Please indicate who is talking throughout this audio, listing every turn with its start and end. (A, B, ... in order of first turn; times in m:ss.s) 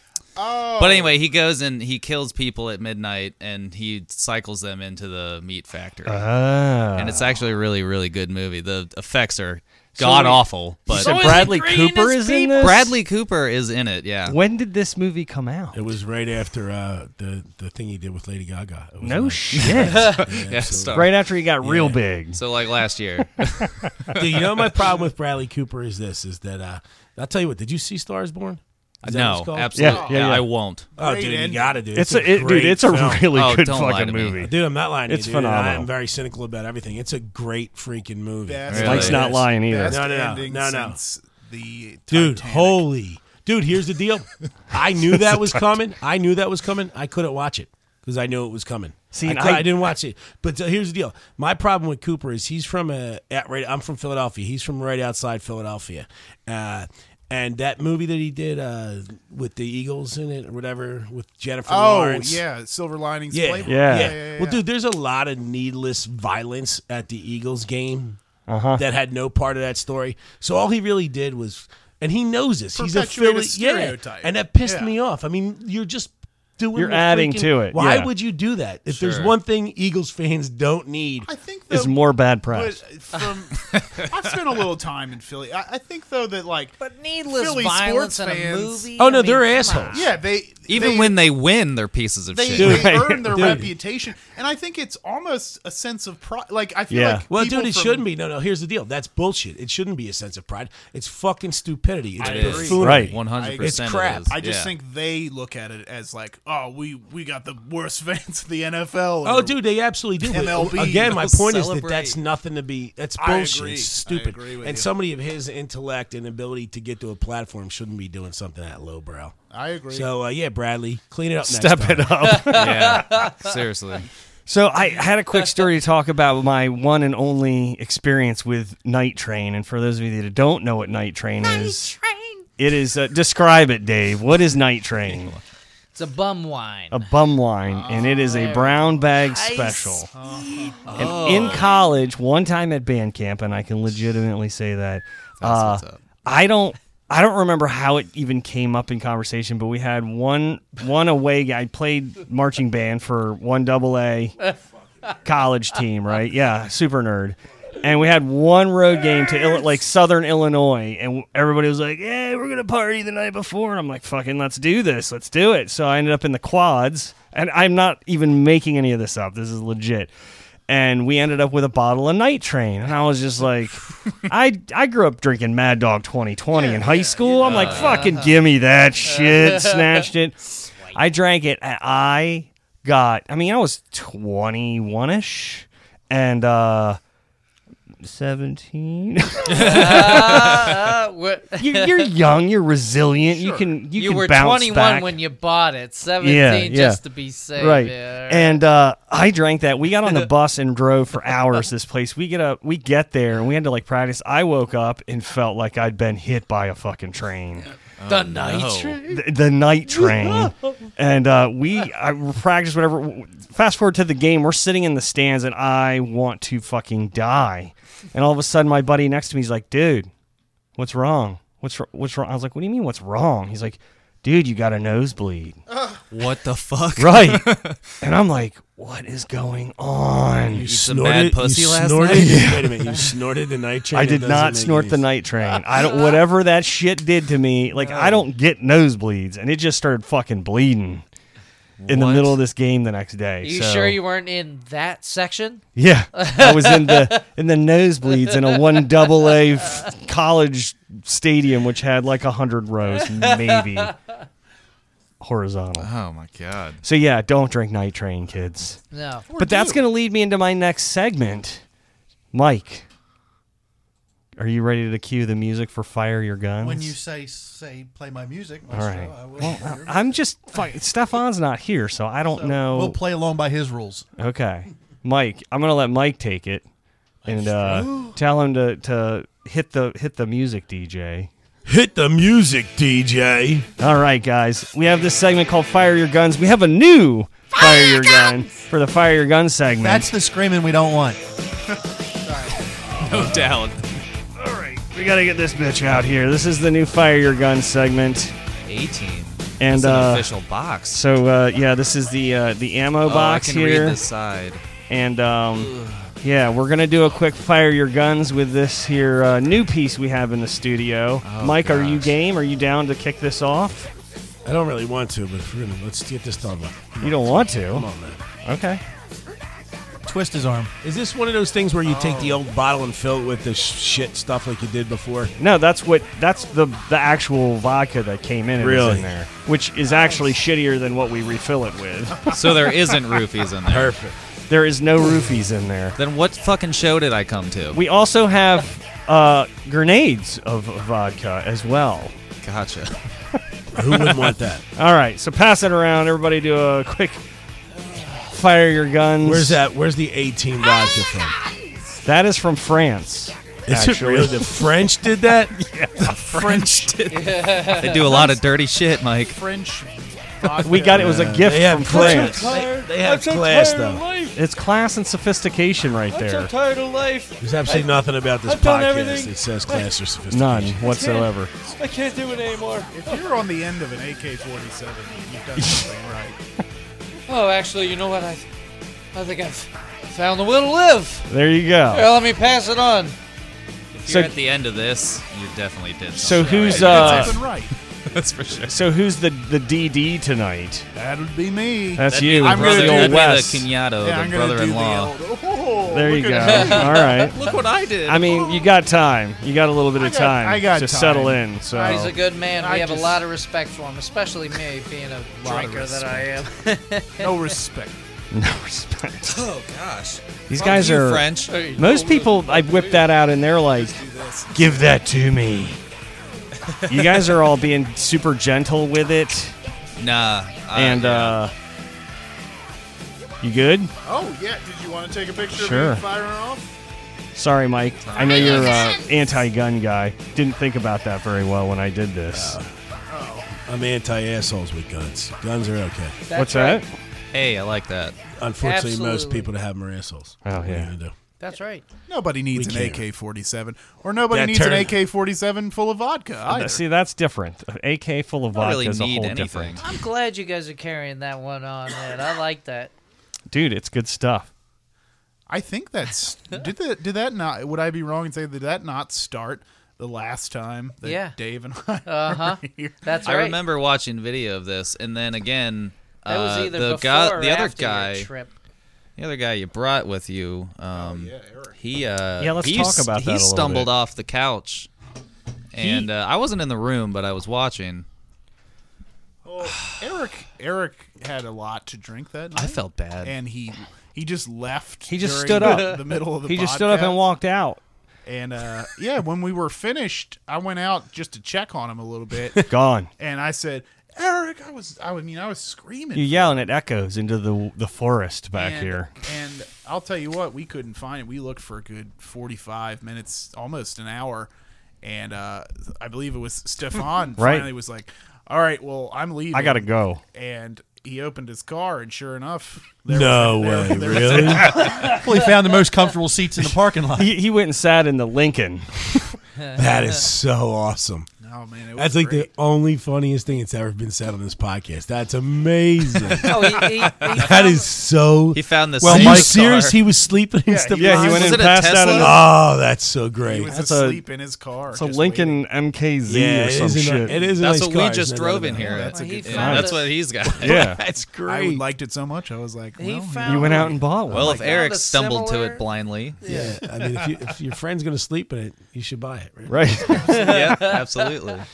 0:00.4-0:01.2 A
0:00.8-0:06.3 B
0:06.1-0:07.4 C
0:07.0-0:11.6 B
0:10.0-0:13.0 C
0:10.9-0:12.6 D
0:12.6-0:14.4 B
0:14.3-0:15.8 C
0:15.7-0:22.0 E
0:19.0-0:20.2 C
0:19.6-0:21.2 B
0:19.9-0:20.2 D
0:20.9-0:22.4 C
0:22.3-0:23.8 B
0:23.8-0:24.1 C
0:24.1-0:30.0 E
0:29.0-0:30.9 B
0:29.8-0:30.5 C
0:29.8-0:30.3 A
0:31.0-0:31.8 A
0:31.0-0:33.3 E
0:31.9-0:34.6 C
0:33.3-0:34.5 B
0:34.4-0:39.3 E
0:35.1-0:35.9 C
0:38.4-0:42.8 A
0:38.7-0:39.2 B
0:38.8-0:40.0 C
0:39.9-0:41.0 E
0:42.1-1:02.4 E
0:49.1-0:49.8 C
1:01.6-1:04.6 A
1:03.3-1:08.2 E
1:03.6-1:04.2 C
1:08.5-1:08.8 C
1:08.8-1:21.3 E
1:12.8-1:14.9 A
1:16.8-1:18.1 C
1:18.9-1:19.4 B
1:21.2-1:28.9 A
1:21.7-1:22.8 C
1:23.7-1:24.1 B
1:26.8-1:30.0 D
1:29.0-1:30.0 E
1:29.9-1:31.2 A
1:30.7-1:33.0 B
1:32.3-1:38.0 A
1:32.5-1:33.7 E
1:33.0-1:33.6 C
1:36.9-1:37.2 C
1:37.3-1:44.3 E
1:42.2-1:49.6 A
1:42.2-1:44.7 B
1:42.8-1:43.2 C
1:49.2-1:59.4 E
1:50.2-1:51.2 A
1:50.9-1:52.2 B
1:53.2-1:54.9 A
1:59.5-2:00.1 A
1:59.9-2:02.3 E
2:01.4-2:03.0 C
2:02.2-2:03.5 D
2:02.5-2:04.1 B
2:04.5-2:11.9 C
2:05.3-2:05.7 D
2:11.4-2:12.4 D
2:12.6-2:15.3 C
2:15.1-2:15.4 B
2:15.9-2:17.0 D
2:16.9-2:20.1 C
2:17.7-2:18.8 A
2:18.2-2:20.9 D
2:20.1-2:20.9 A
2:20.9-2:21.7 B
2:21.0-2:34.4 C
2:25.4-2:26.0 B
2:35.2-2:50.1 C
2:50.7-3:00.4 C
2:56.6-2:58.4 D
2:56.8-2:57.8 A
2:57.4-2:58.1 B
2:59.1-3:00.1 D
3:00.9-3:07.0 C
3:08.0-3:10.7 C
3:09.5-3:12.2 D
3:09.6-3:10.3 B
3:11.6-3:15.2 C
3:13.3-3:13.7 A
3:13.9-3:18.6 D
3:16.2-3:17.0 C
3:17.6-3:27.7 C
3:28.0-3:29.0 B
3:28.1-3:29.3 D
3:29.1-3:40.1 C
3:29.9-3:30.7 D
3:40.8-3:45.6 C
3:46.1-3:47.8 B
3:47.0-3:50.6 C
3:50.5-3:55.0 E
3:50.6-3:52.5 B
3:52.1-3:52.8 C
3:53.9-4:01.0 C
4:01.8-4:02.4 B
4:01.9-4:04.0 C
4:03.4-4:07.2 D
4:05.8-4:13.9 C
4:08.2-4:08.7 D
4:13.0-4:13.9 D
4:15.2-4:15.9 C
4:15.8-4:16.8 B
4:16.8-4:18.8 C
4:18.9-4:19.3 D
4:19.3-4:19.8 A
4:19.4-4:21.6 C
4:22.3-4:22.8 C
4:24.4-4:27.0 C
4:26.6-4:30.2 F
4:28.7-4:33.0 C
4:32.3-4:34.1 F
4:34.2-4:36.6 C
4:37.2-4:38.2 F
4:37.2-4:41.3 C
4:41.7-4:43.7 E
4:43.8-4:50.1 C
4:49.8-4:51.2 F
4:52.2-4:52.6 D
4:53.0-4:53.8 B
4:54.4-4:58.3 C
4:58.6-5:01.0 B
4:59.6-5:00.3 C
5:00.9-5:04.0 C
5:03.0-5:04.6 B
5:04.9-5:13.9 C
5:05.6-5:06.1 B
5:11.2-5:12.2 B
5:14.4-5:18.2 E
5:17.0-5:17.9 C
5:18.4-5:18.8 C
5:20.0-5:20.7 F
5:20.8-5:25.3 E
5:21.8-5:22.4 A
5:25.4-5:32.3 C
5:28.6-5:29.1 E
5:32.3-5:34.0 B
5:33.7-5:34.2 E
5:34.5-5:36.0 C
5:36.0-5:37.8 B
5:37.7-5:42.2 C
5:42.4-5:43.0 B
5:43.7-5:44.6 E
5:43.9-5:47.2 C
5:48.3-5:49.6 C
5:49.2-5:51.4 E
5:52.0-5:54.6 C
5:53.7-5:55.6 E
5:55.6-5:56.1 C
5:56.0-5:59.4 B
5:56.1-5:57.0 A
5:57.1-5:58.4 D
5:59.3-6:01.4 A
6:00.6-6:02.6 C
6:00.7-6:04.0 E
6:01.9-6:04.3 D
6:04.3-6:06.5 C
6:06.1-6:09.8 D
6:07.4-6:10.8 E
6:10.3-6:11.5 C
6:10.9-6:13.2 D
6:12.9-6:16.4 A
6:17.3-6:18.4 D
6:19.1-6:21.2 D
6:21.3-6:22.1 C
6:21.9-6:23.2 D
6:23.9-6:28.8 B
6:24.1-6:24.3 C
6:26.2-6:27.4 C
6:26.3-6:27.7 A
6:28.7-6:30.8 C
6:30.9-6:33.4 A
6:32.0-6:33.7 C
6:32.1-6:35.2 B
6:34.0-6:37.1 A
6:35.9-6:37.4 C
6:36.4-6:37.0 D
6:37.0-6:38.5 B
6:38.0-6:42.2 C
6:40.0-6:43.2 A
6:41.7-6:47.5 D
6:45.4-6:46.3 A
6:47.2-6:48.0 A
6:48.3-6:49.4 C
6:49.3-6:51.6 B
6:50.5-6:54.0 C
6:51.5-6:53.1 D
6:53.7-6:54.8 A
6:54.5-6:55.8 C
6:56.7-6:57.4 B
6:56.9-6:59.6 C
7:00.0-7:01.4 B
7:00.7-7:01.5 C
7:03.4-7:03.9 C
7:04.0-7:06.7 A
7:05.5-7:06.0 C
7:07.3-7:12.6 C
7:08.0-7:09.0 B
7:12.3-7:12.7 E
7:13.1-7:13.5 A
7:13.7-7:16.2 E
7:16.3-7:16.8 D
7:16.3-7:16.8 C
7:17.3-7:18.2 B
7:18.4-7:21.1 E
7:18.6-7:19.5 D
7:20.4-7:20.9 C
7:21.4-7:21.8 D
7:22.1-7:26.8 A
7:22.6-7:23.0 E
7:24.3-7:24.9 E
7:26.5-7:29.8 C
7:28.5-7:29.8 B
7:29.8-7:32.9 D
7:33.5-7:34.5 C
7:35.5-7:43.2 A
7:41.0-7:41.3 D
7:42.1-7:43.6 D
7:43.2-7:48.3 B
7:46.3-7:48.5 D
7:49.2-7:54.9 B
7:50.9-7:51.8 A
7:52.4-7:53.9 C
7:55.7-7:58.1 B
7:59.4-8:07.2 A
8:02.6-8:03.4 B
8:05.1-8:07.8 C
8:05.6-8:06.0 D
8:08.2-8:16.7 A
8:12.7-8:13.1 C
8:16.2-8:19.1 C
8:18.5-8:24.5 A
8:25.0-8:35.2 A
8:27.4-8:27.7 C
8:29.5-8:30.2 C
8:33.1-8:34.9 E
8:35.0-8:37.3 F
8:37.2-8:39.0 C
8:39.8-8:41.3 E
8:41.4-8:42.5 A
8:42.0-8:51.6 E
8:46.4-8:47.9 D
8:48.5-8:50.0 B
8:49.0-8:49.5 F
8:50.7-8:52.4 A
8:51.0-8:52.4 C
8:51.2-8:52.4 B
8:52.2-8:53.7 E
8:53.4-8:55.6 A
8:53.7-8:54.2 C
8:54.9-8:57.4 C
8:56.3-8:59.1 E
8:57.6-9:00.9 B
8:58.8-9:00.0 A
8:59.1-9:00.1 D
8:59.5-8:59.9 C
9:00.4-9:01.8 E
9:00.6-9:01.0 C
9:01.4-9:03.9 A
9:03.0-9:05.8 D
9:03.4-9:04.8 C
9:04.3-9:06.4 B
9:06.4-9:06.9 D
9:06.4-9:10.3 E
9:09.7-9:10.3 C
9:10.2-9:11.1 D
9:10.3-9:11.6 B